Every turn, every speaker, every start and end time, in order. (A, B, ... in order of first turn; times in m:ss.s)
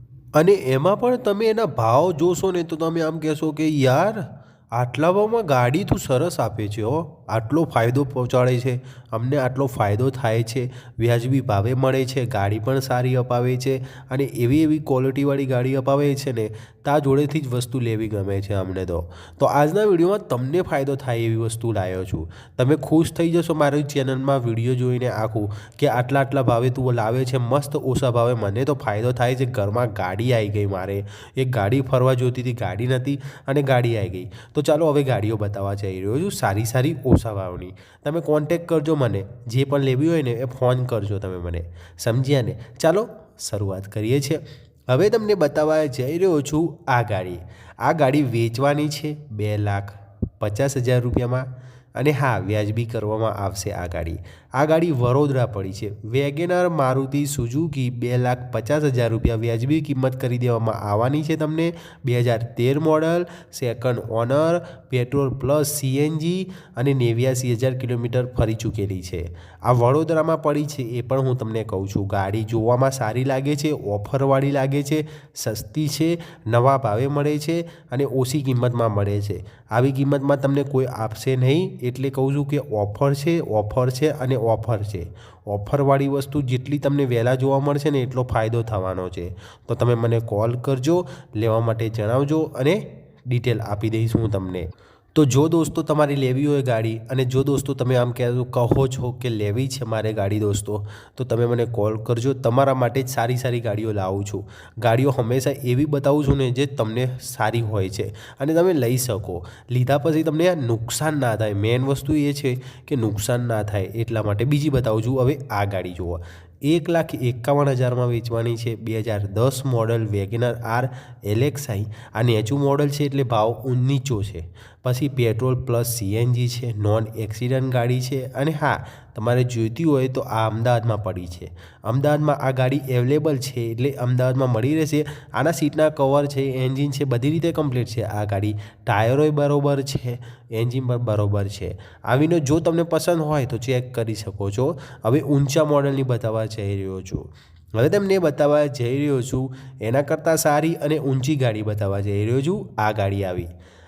0:00.4-2:33.5 A